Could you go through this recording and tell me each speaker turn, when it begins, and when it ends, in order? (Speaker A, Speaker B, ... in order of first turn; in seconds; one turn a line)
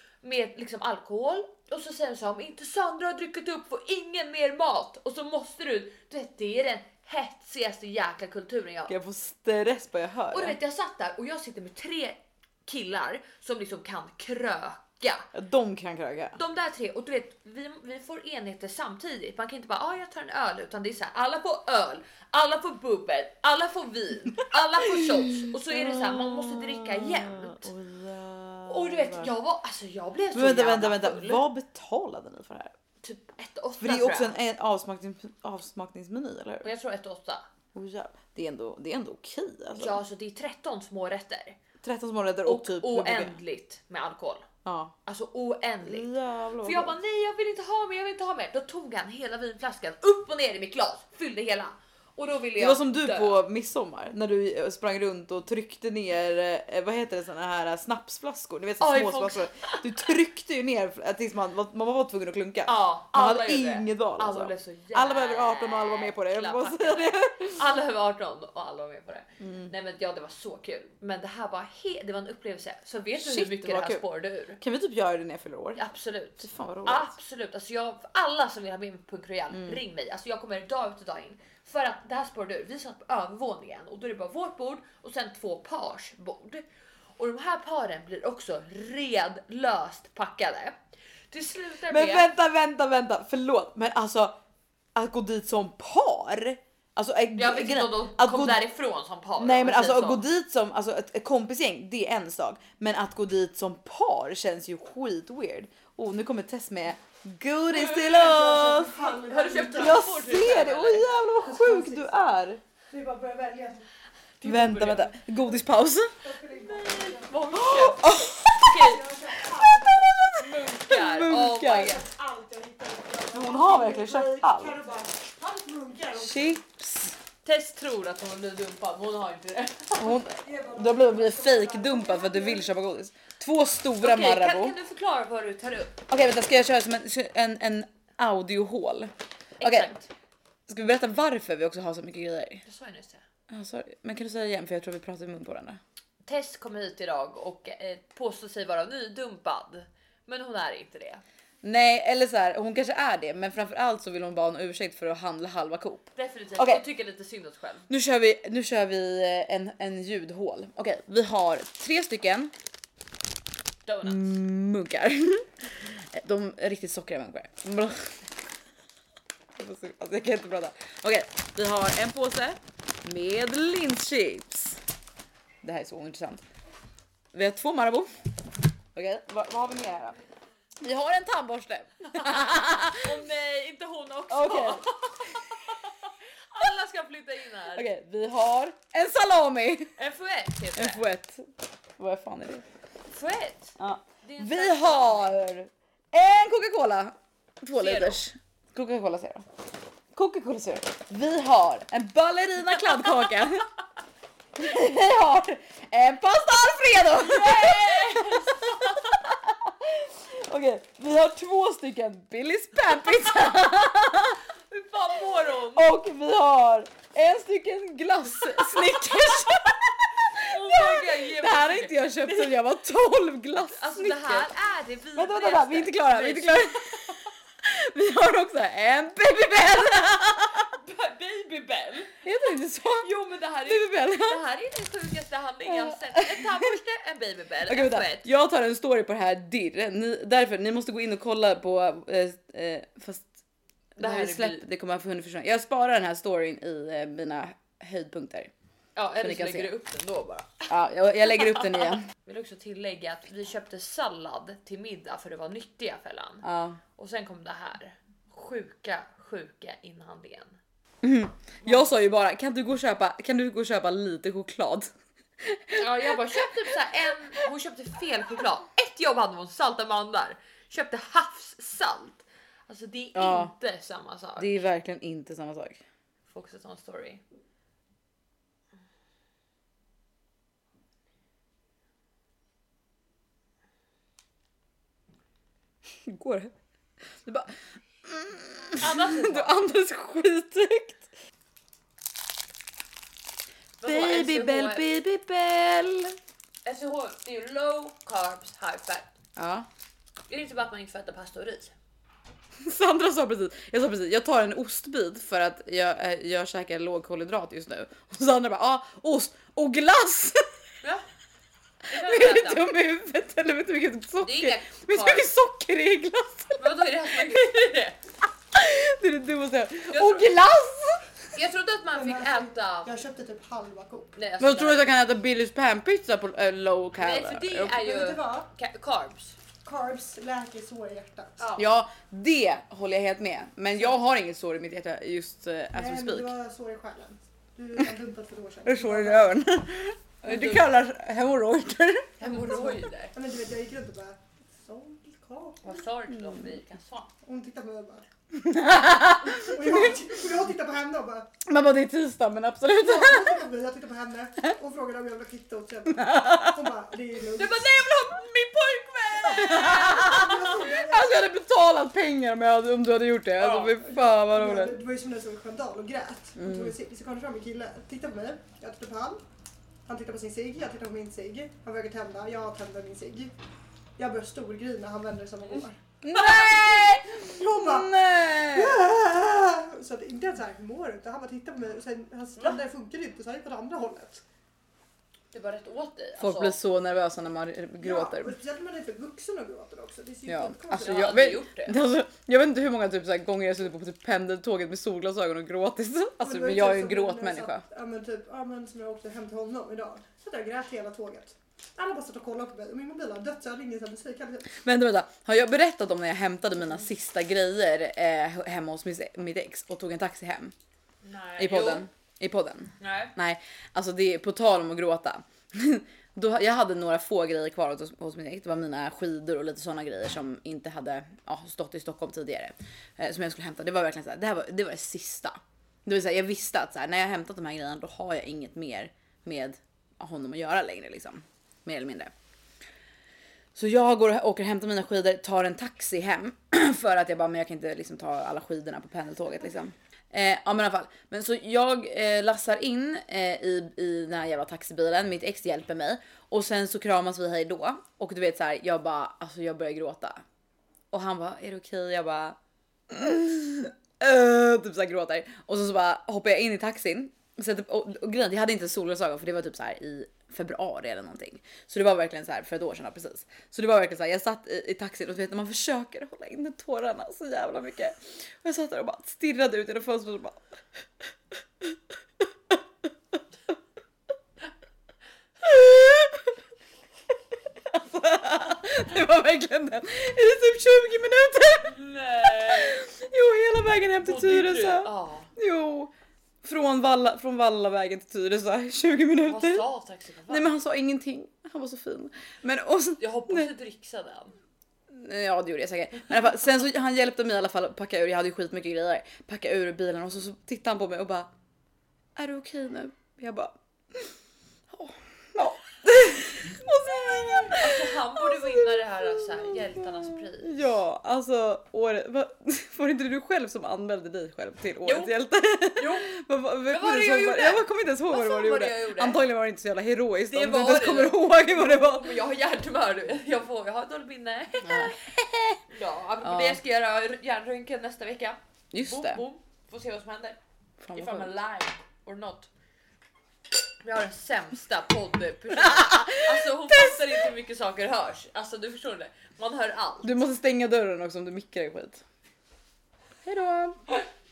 Speaker A: 0.2-8.9
Speaker B: 8.9-10.6
Speaker A: 10.3-15.3
Speaker B: 15.3-16.4
Speaker A: 16.3-27.7
Speaker B: 24.9-29.3
Speaker A: 28.7-31.4
Speaker B: 30.3-32.7
Speaker A: 33.0-34.4
Speaker B: 33.8-36.7
Speaker A: 36.6-37.4
Speaker B: 37.7-40.0
Speaker A: 39.7-41.6
Speaker B: 41.8-43.4
Speaker A: 42.5-44.5
Speaker B: 44.6-45.0
Speaker A: 45.0-46.1
Speaker B: 45.8-47.0
Speaker A: 46.6-53.4
Speaker B: 52.6-67.6
Speaker A: 58.8-59.8
Speaker A: 62.6-74.6
Speaker B: 69.4-69.7
Speaker B: 73.2-74.0
Speaker B: 74.6-75.8
Speaker A: 75.8-86.6
Speaker B: 76.4-77.1
Speaker B: 79.5-79.8
Speaker A: 87.2-90.8
Speaker A: 91.3-92.3
Speaker B: 91.9-94.4
Speaker B: 94.9-98.6
Speaker A: 97.3-100.2
Speaker B: 99.4-109.0
Speaker A: 107.7-111.2
Speaker C: 108.0-110.0
Speaker B: 109.7-112.6
Speaker C: 111.4-112.3
Speaker C: 112.9-113.8
Speaker A: 114.4-115.2
Speaker B: 114.4-116.1
Speaker C: 116.2-117.4
Speaker A: 116.6-119.0
Speaker B: 117.5-122.0
Speaker C: 118.7-120.2
Speaker A: 120.3-122.0
Speaker C: 121.3-126.6
Speaker B: 123.3-124.8
Speaker B: 126.1-127.2
Speaker A: 127.4-130.2
Speaker B: 130.0-134.8
Speaker C: 130.3-132.7
Speaker A: 134.0-136.0
Speaker B: 136.1-139.9
Speaker A: 139.6-140.1
Speaker B: 140.7-142.6
Speaker A: 142.6-143.2
Speaker B: 143.5-145.8
Speaker A: 146.2-151.2
Speaker B: 151.6-156.8
Speaker A: 156.2-157.9
Speaker B: 157.9-162.5
Speaker A: 163.8-164.3
Speaker B: 164.0-168.3
Speaker B: 169.6-174.8
Speaker B: 175.6-176.4
Speaker B: 177.3-178.1
Speaker B: 178.9-180.2
Speaker B: 180.8-183.2
Speaker A: 182.9-187.9
Speaker B: 184.3-184.8
Speaker B: 187.7-189.9
Speaker A: 190.0-191.0
Speaker B: 190.8-192.6
Speaker A: 193.1-195.3
Speaker B: 193.8-199.4
Speaker A: 197.7-198.2
Speaker B: 200.1-203.7
Speaker B: 204.6-214.4
Speaker A: 207.2-209.2
Speaker A: 214.7-215.9
Speaker B: 215.7-224.5
Speaker A: 218.6-222.5
Speaker A: 223.7-227.2
Speaker B: 225.1-230.7
Speaker A: 230.7-232.2
Speaker B: 232.2-233.1
Speaker A: 233.0-238.3
Speaker B: 233.6-234.4
Speaker B: 235.6-236.5
Speaker B: 237.7-243.3
Speaker B: 244.0-248.5
Speaker A: 244.0-244.6
Speaker A: 248.9-250.7
Speaker B: 249.2-249.7
Speaker B: 250.7-252.1
Speaker A: 251.2-260.6
Speaker B: 256.4-256.8
Speaker B: 261.0-266.7
Speaker A: 265.7-274.6
Speaker B: 273.1-273.5
Speaker B: 274.4-275.8
Speaker A: 276.3-277.2
Speaker B: 285.9-286.5
Speaker B: 287.1-291.1
Speaker A: 288.8-289.5
Speaker A: 293.8-294.9
Speaker B: 293.8-296.2
Speaker A: 296.6-299.1
Speaker B: 299.4-299.7
Speaker A: 300.3-301.7
Speaker B: 302.6-310.5
Speaker A: 311.9-312.7
Speaker B: 311.9-317.5
Speaker A: 314.2-315.3
Speaker A: 316.6-318.0
Speaker B: 318.5-321.3
Speaker A: 319.9-320.3
Speaker A: 321.3-322.9
Speaker C: 321.9-324.1
Speaker A: 324.1-324.9
Speaker B: 324.4-327.8
Speaker A: 327.0-329.4
Speaker C: 327.7-328.5
Speaker C: 329.6-331.4
Speaker A: 331.4-331.6
Speaker B: 331.6-336.3
Speaker C: 335.7-339.3
Speaker B: 338.6-342.1
Speaker A: 340.2-340.6
Speaker A: 342.2-343.1
Speaker C: 342.2-345.6
Speaker A: 345.6-347.1
Speaker B: 346.1-346.4
Speaker C: 347.2-348.1
Speaker B: 348.3-350.1
Speaker C: 349.3-351.3
Speaker B: 351.4-353.4
Speaker C: 352.8-357.7
Speaker B: 355.9-356.6
Speaker A: 357.4-360.5
Speaker B: 359.3-364.8
Speaker C: 359.5-361.1
Speaker A: 363.4-363.7
Speaker C: 363.8-369.2
Speaker B: 366.4-366.7
Speaker C: 369.9-373.3
Speaker C: 374.0-375.8
Speaker B: 376.0-378.8
Speaker C: 376.4-384.2
Speaker A: 385.3-386.6
Speaker B: 386.2-388.4
Speaker C: 387.8-391.1
Speaker B: 390.2-397.6
Speaker A: 390.7-391.8
Speaker C: 396.2-404.6
Speaker B: 404.5-410.5
Speaker A: 411.0-411.8
Speaker B: 411.4-432.1
Speaker A: 412.8-413.1
Speaker B: 433.5-450.2
Speaker B: 450.9-452.4
Speaker B: 452.9-470.6
Speaker B: 475.4-476.4
Speaker B: 477.6-485.9
Speaker A: 481.6-482.8
Speaker A: 484.0-485.3
Speaker B: 486.4-489.6
Speaker A: 489.2-490.5
Speaker B: 490.3-493.5
Speaker A: 493.0-494.3
Speaker B: 494.9-501.3
Speaker B: 502.1-504.1
Speaker B: 504.7-522.2
Speaker A: 507.5-510.7
Speaker A: 514.8-515.1
Speaker A: 515.7-516.1
Speaker A: 516.6-519.2
Speaker A: 520.3-525.0
Speaker B: 524.6-525.6
Speaker A: 525.7-530.4
Speaker B: 526.2-526.6
Speaker B: 528.7-529.2
Speaker B: 530.8-531.3
Speaker A: 530.9-532.5
Speaker A: 533.8-540.2
Speaker B: 535.5-537.2
Speaker B: 540.0-542.0
Speaker B: 543.2-543.8